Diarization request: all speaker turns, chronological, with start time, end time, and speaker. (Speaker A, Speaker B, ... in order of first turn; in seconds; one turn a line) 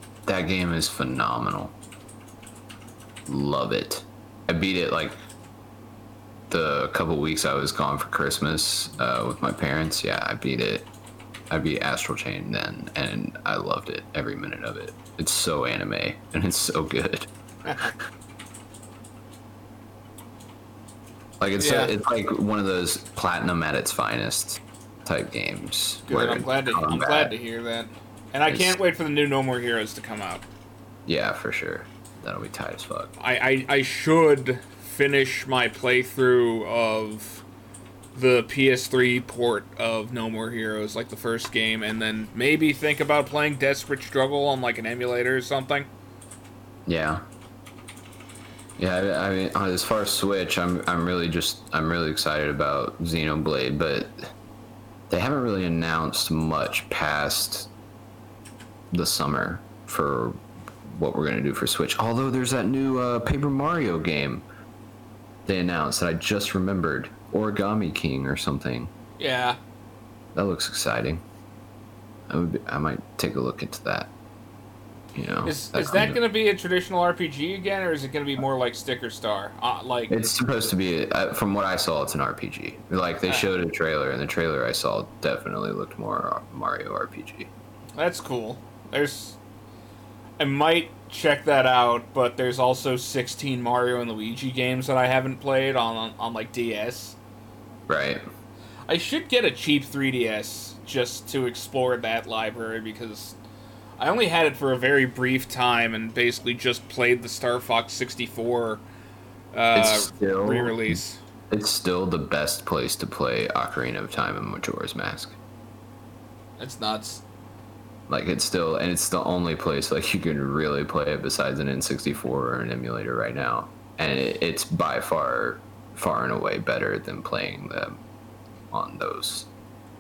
Speaker A: 0.3-1.8
Speaker A: 3.3-5.2
Speaker A: 6.5-10.9
Speaker A: 11.5-17.3
Speaker B: 17.6-17.9
Speaker A: 21.4-27.3
Speaker B: 21.6-21.9
Speaker B: 26.1-30.4
Speaker A: 28.5-28.8
Speaker A: 31.1-33.1
Speaker B: 33.2-37.4
Speaker B: 38.1-45.9
Speaker A: 46.9-47.2
Speaker A: 48.8-54.3
Speaker A: 55.1-57.7
Speaker A: 58.9-64.5
Speaker A: 65.5-68.9
Speaker B: 69.2-69.6
Speaker A: 70.3-71.2
Speaker A: 72.3-74.1
Speaker A: 75.2-76.2
Speaker B: 75.5-80.2
Speaker A: 80.1-87.5
Speaker B: 88.0-89.4
Speaker B: 90.4-97.2
Speaker A: 97.9-98.2
Speaker B: 98.9-103.4
Speaker B: 104.0-108.8
Speaker B: 109.5-111.2
Speaker A: 109.8-111.0
Speaker A: 111.5-115.4
Speaker B: 116.6-117.2
Speaker A: 118.1-128.0
Speaker A: 128.7-129.5